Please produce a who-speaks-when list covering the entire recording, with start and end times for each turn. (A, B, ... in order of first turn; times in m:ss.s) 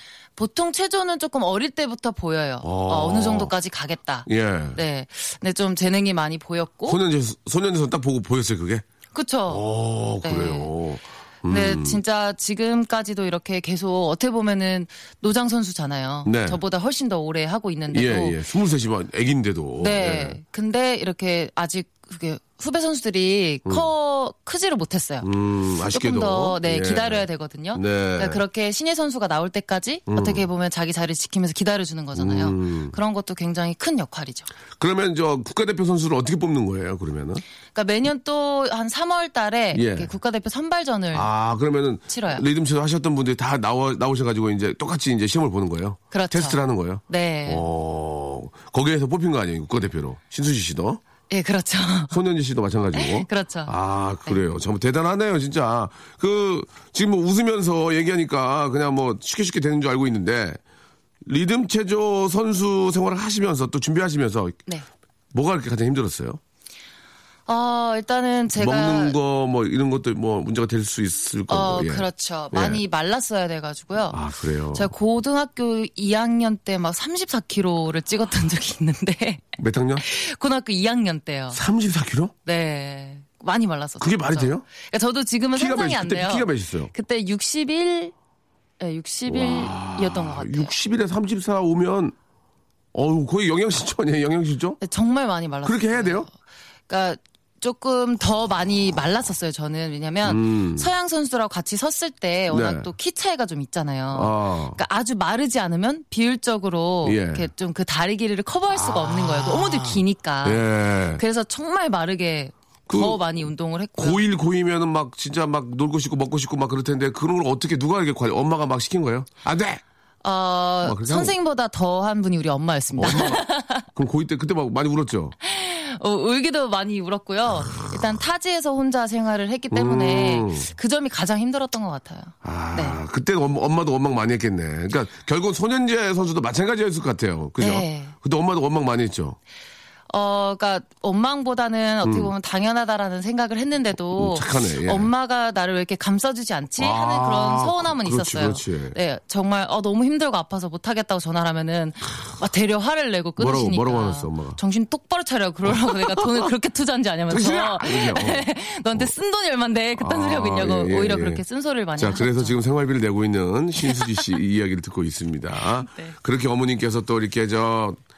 0:00.4-0:07.0 A
0:02.6-0:03.5 B
0:04.2-0:04.8 B
0:06.9-0:08.8 B
0:09.1-0:09.6 A
0:09.5-0:12.0 B
0:10.2-0:10.7 A
0:11.5-0:18.4 A
0:16.2-0:16.6 B
0:17.9-0:20.4 B
0:19.8-0:25.3 A
0:25.2-0:28.4 B
0:25.9-0:34.5 A
0:30.1-0:30.4 B
0:32.1-0:33.0 B
0:34.8-0:37.4 B
0:37.7-0:41.3 A
0:39.7-0:40.1 B
0:41.1-0:51.0 B
0:42.1-0:42.4 A
0:46.1-0:47.6 A
0:51.3-0:52.2 A
0:52.1-1:00.6 B
0:52.9-0:53.7 A
1:01.2-1:04.6 B
1:05.3-1:06.4 B
1:07.5-1:09.2 A
1:08.6-1:12.8 B
1:11.5-1:14.2 A
1:14.1-1:14.9 B
1:14.7-1:19.4 A
1:19.6-1:20.0 B
1:20.0-1:21.6 A
1:21.5-1:22.3 B
1:22.4-1:28.1 A
1:24.0-1:24.6 B
1:25.5-1:26.9 B
1:28.8-1:30.7 A
1:29.3-1:32.1 B
1:32.9-1:34.8 B
1:34.8-1:36.3 A
1:35.6-1:36.3 B
1:36.9-1:54.2 A
1:40.2-1:40.9 B
1:42.5-1:42.9 B
1:44.1-1:44.8 B
1:47.0-1:47.5 B
1:48.7-1:51.2 B
1:52.9-1:53.2 B
1:54.0-1:59.8 B
2:00.2-2:03.8 A
2:00.8-2:01.3 B
2:03.0-2:05.3 B
2:05.4-2:13.0 A
2:09.7-2:10.7 B
2:12.4-2:19.4 B
2:17.6-2:18.1 A
2:20.1-2:42.6 A
2:22.0-2:22.3 B
2:24.1-2:25.1 B
2:26.8-2:29.0 B
2:33.4-2:34.6 B
2:35.7-2:36.5 B
2:37.3-2:39.1 B
2:40.0-2:41.4 B
2:42.0-2:48.0 B
2:43.8-2:44.2 A
2:45.8-2:46.1 A